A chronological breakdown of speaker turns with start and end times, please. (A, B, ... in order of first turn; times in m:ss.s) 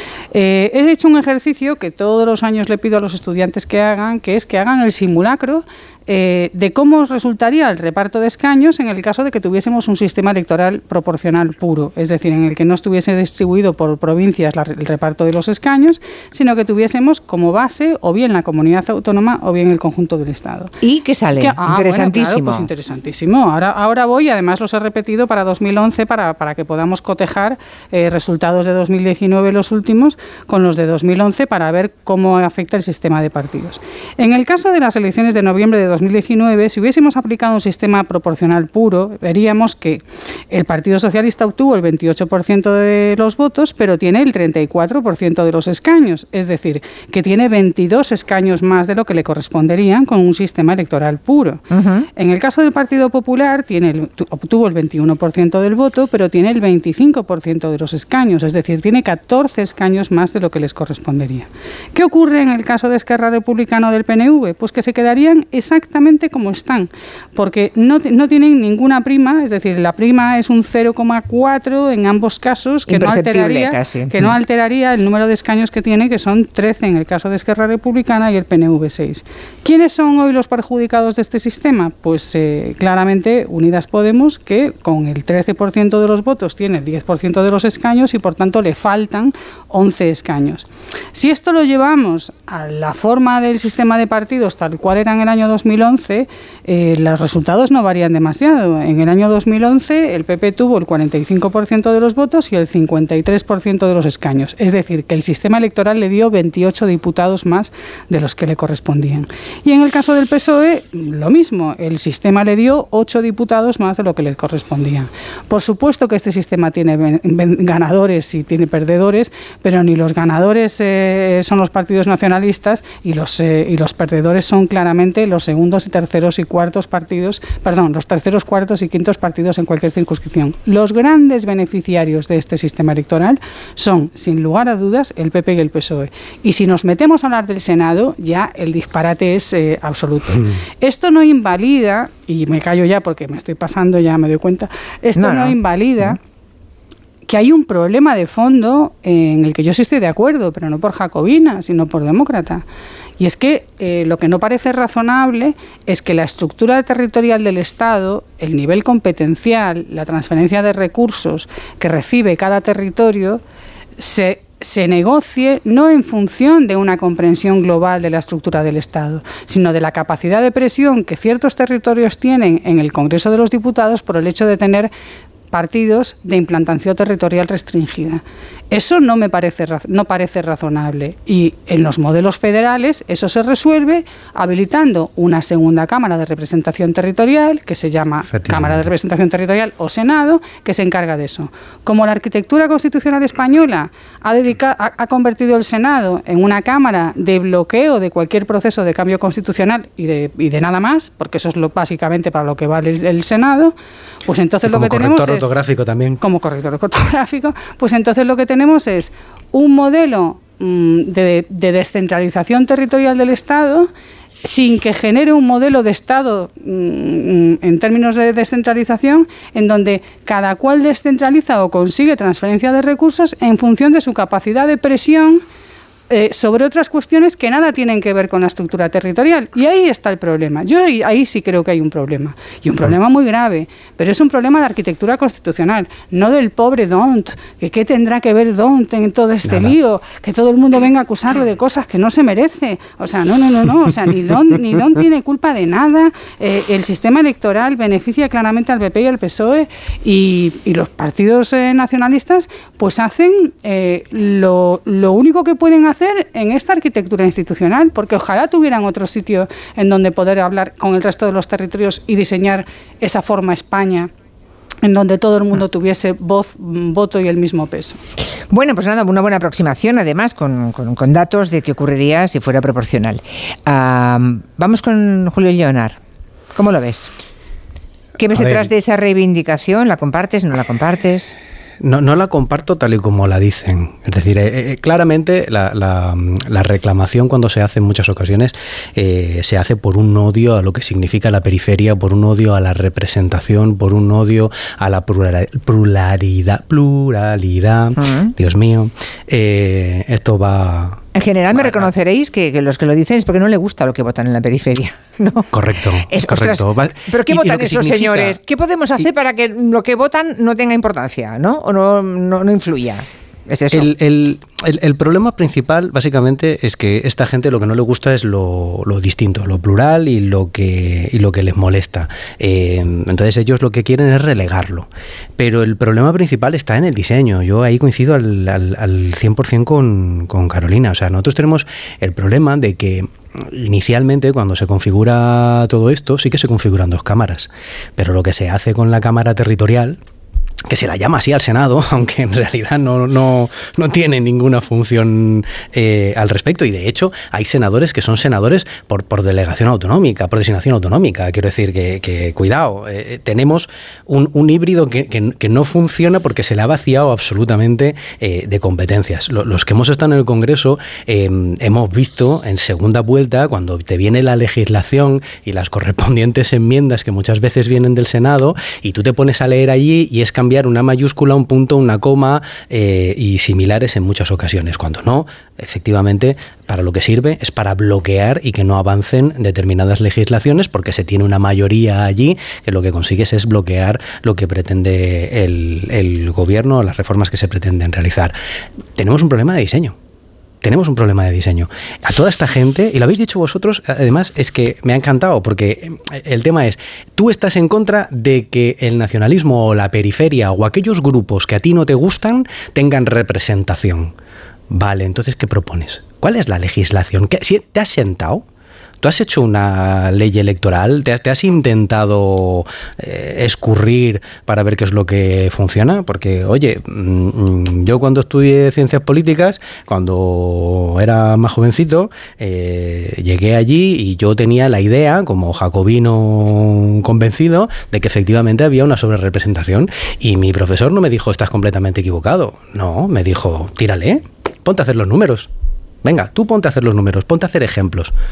0:00.3-0:20.7 A
0:20.8-0:22.7 B
0:21.4-0:51.6 A
0:51.7-0:52.1 B
0:52.2-2:26.2 A
1:12.9-1:14.3 B
2:20.3-2:20.6 C
2:25.2-2:25.6 B
2:27.3-2:32.6 A
2:33.2-2:43.4 A
2:44.0-2:54.9 A
2:55.5-3:23.7 A
3:08.3-3:08.9 C
3:24.3-3:25.5 A
3:24.6-3:26.2 C
3:26.2-3:33.9 A
3:34.4-3:45.4 A
3:46.1-4:24.1 A
3:59.4-3:59.8 C
4:24.8-4:28.0 A
4:28.5-4:36.0 B
4:36.5-4:37.1 B
4:38.2-4:41.3 B
4:38.3-4:38.7 C
4:41.8-5:01.0 C
4:58.0-4:58.3 B
5:01.1-5:05.5 B
5:01.5-5:01.9 C
5:05.5-5:08.4 C
5:06.1-5:13.9 B
5:13.7-5:40.0 C
5:40.7-6:28.3 C
6:28.9-6:29.9 C
6:30.6-6:44.1 C
6:44.7-6:48.4 C
6:49.0-7:15.5 C
7:16.0-7:18.1 C